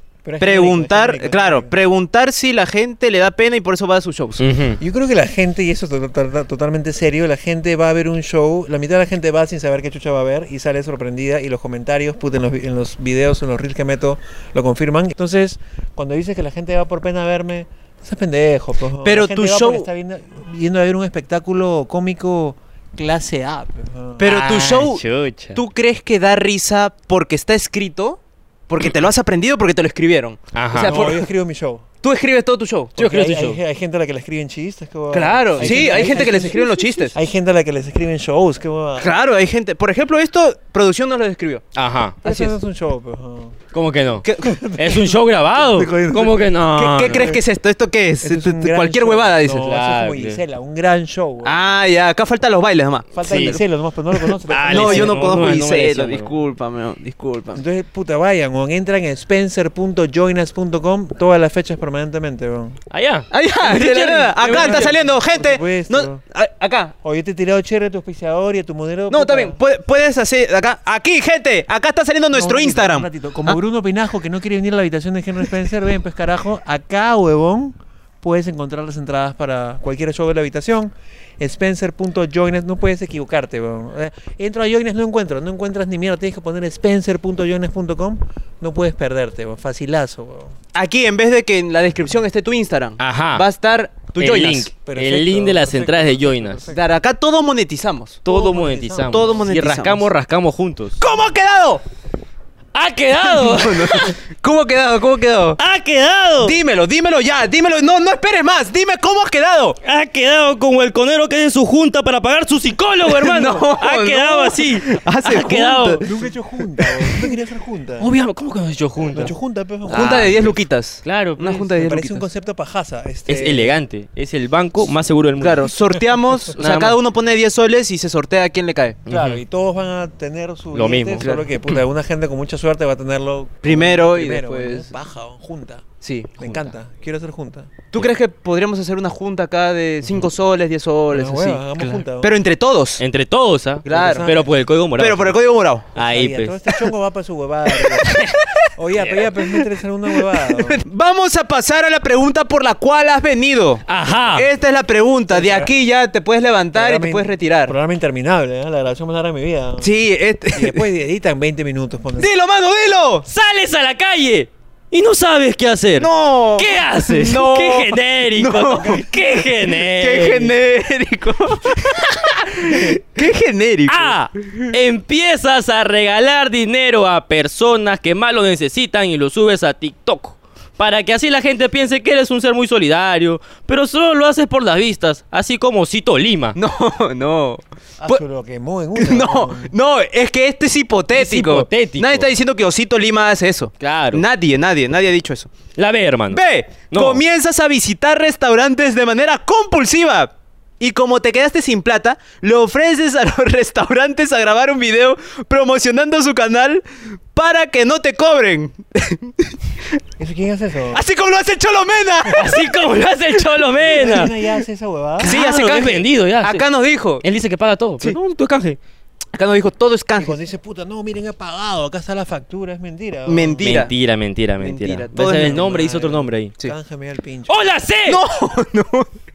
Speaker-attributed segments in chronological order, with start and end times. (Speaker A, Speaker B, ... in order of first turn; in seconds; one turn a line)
Speaker A: 0.2-1.7
Speaker B: 0.4-4.4
Speaker C: 4.4-4.8
Speaker A: 4.8-24.5
Speaker B: 19.0-19.9
Speaker B: 24.2-25.0
Speaker C: 24.2-25.6
Speaker B: 25.6-31.3
Speaker C: 30.5-31.0
Speaker A: 30.8-31.9
Speaker B: 32.0-33.0
Speaker C: 33.0-33.6
Speaker A: 33.0-39.2
Speaker B: 35.1-37.1
Speaker C: 35.6-36.3
Speaker B: 39.0-41.6
Speaker C: 41.7-42.2
Speaker B: 42.2-42.6
Speaker A: 42.2-43.5
Speaker C: 43.7-47.4
Speaker B: 44.2-44.6
Speaker A: 44.4-46.5
Speaker B: 46.7-49.7
Speaker A: 47.1-47.4
Speaker A: 48.2-51.6
Speaker C: 49.5-50.4
Speaker B: 51.4-53.6
Speaker A: 53.1-55.4
Speaker C: 53.3-53.6
Speaker B: 54.2-57.6
Speaker C: 54.5-56.3
Speaker A: 57.5-62.8
Speaker C: 62.9-65.0
Speaker B: 63.3-66.9
Speaker A: 64.4-66.2
Speaker A: 67.0-69.6
Speaker B: 69.1-73.5
Speaker A: 72.3-90.5
Speaker B: 90.7-94.7
Speaker C: 93.0-93.5
Speaker C: 94.2-96.6
Speaker A: 94.8-96.8
Speaker B: 96.7-98.2
Speaker C: 98.2-101.0
Speaker A: 98.3-99.5
Speaker B: 99.1-100.0
Speaker B: 101.0-101.8
Speaker C: 102.7-104.2
Speaker B: 103.2-105.6
Speaker C: 105.6-106.6
Speaker B: 106.4-109.8
Speaker C: 109.8-116.1
Speaker B: 113.0-116.1
Speaker A: 116.0-118.1
Speaker C: 118.0-119.3
Speaker A: 119.1-120.5
Speaker C: 119.9-121.7
Speaker B: 119.9-122.3
Speaker A: 121.8-123.8
Speaker C: 123.3-125.7
Speaker B: 125.4-129.0
Speaker C: 126.6-127.0
Speaker C: 129.1-129.4
Speaker A: 129.1-135.8
Speaker C: 130.7-131.8
Speaker B: 133.6-134.9
Speaker B: 136.0-136.4
Speaker A: 136.4-137.7
Speaker C: 136.4-136.7
Speaker B: 137.9-143.0
Speaker A: 141.1-142.3
Speaker C: 143.0-145.4
Speaker B: 143.8-144.3
Speaker A: 143.9-144.6
Speaker B: 145.0-145.9
Speaker C: 145.9-146.6
Speaker A: 146.0-148.2
Speaker C: 148.1-148.4
Speaker A: 148.8-150.8
Speaker C: 149.0-149.3
Speaker B: 150.3-157.8
Speaker C: 153.9-154.5
Speaker A: 155.3-155.7
Speaker A: 156.7-159.9
Speaker B: 159.8-160.9
Speaker A: 160.5-162.3
Speaker B: 162.2-163.3
Speaker C: 163.3-170.6
Speaker B: 166.0-169.1
Speaker B: 169.7-174.7
Speaker C: 171.7-172.9
Speaker C: 173.9-186.6
Speaker B: 186.6-188.2
Speaker A: 188.0-189.7
Speaker B: 189.0-195.6
Speaker C: 191.1-192.3
Speaker C: 193.8-194.2
Speaker C: 195.8-197.2
Speaker B: 196.3-209.6
Speaker A: 210.2-211.0
Speaker B: 210.9-212.6
Speaker C: 212.3-214.3
Speaker A: 213.8-215.4
Speaker C: 215.2-216.6
Speaker B: 215.2-217.2
Speaker C: 217.2-218.8
Speaker B: 219.3-220.4
Speaker A: 220.2-223.8
Speaker B: 223.3-223.9
Speaker C: 223.6-226.5
Speaker B: 224.6-225.6
Speaker A: 225.3-227.6
Speaker C: 227.5-228.2
Speaker B: 228.1-229.1